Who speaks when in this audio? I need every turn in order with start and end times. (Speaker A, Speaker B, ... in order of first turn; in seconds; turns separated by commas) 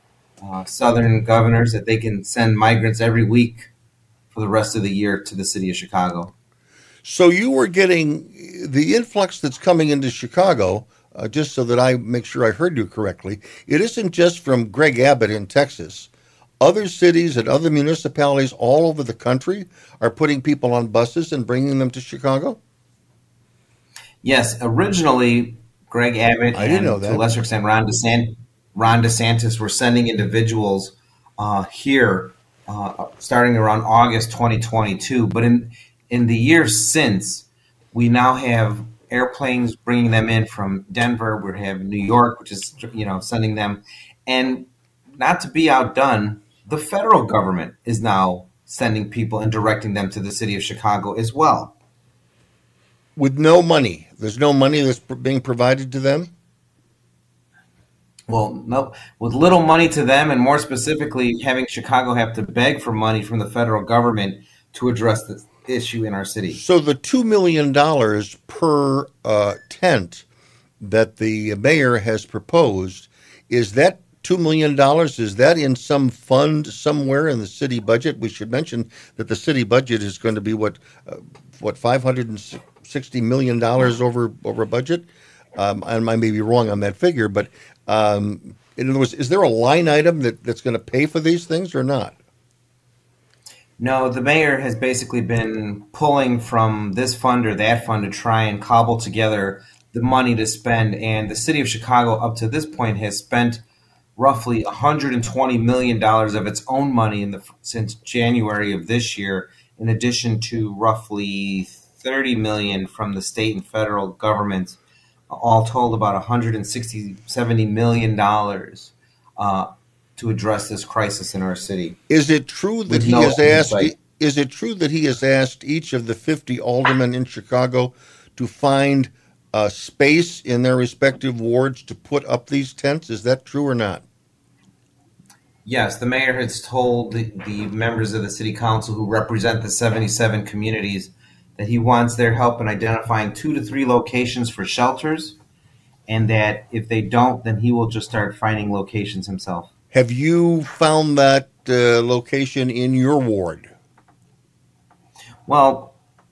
Speaker A: 0.4-3.7, Speaker A: 4.3-6.3, Speaker B: 7.0-16.1, Speaker B: 16.6-22.6, Speaker A: 24.2-51.7, Speaker B: 26.5-27.2, Speaker B: 53.1-56.3, Speaker A: 58.3-66.6, Speaker B: 66.5-70.2, Speaker B: 70.8-92.2, Speaker A: 93.8-103.6, Speaker A: 104.2-114.8, Speaker A: 115.3-122.0, Speaker B: 122.1-134.0, Speaker A: 122.9-123.9, Speaker A: 135.7-145.4, Speaker A: 146.1-149.7, Speaker B: 149.9-153.7, Speaker A: 155.5-155.9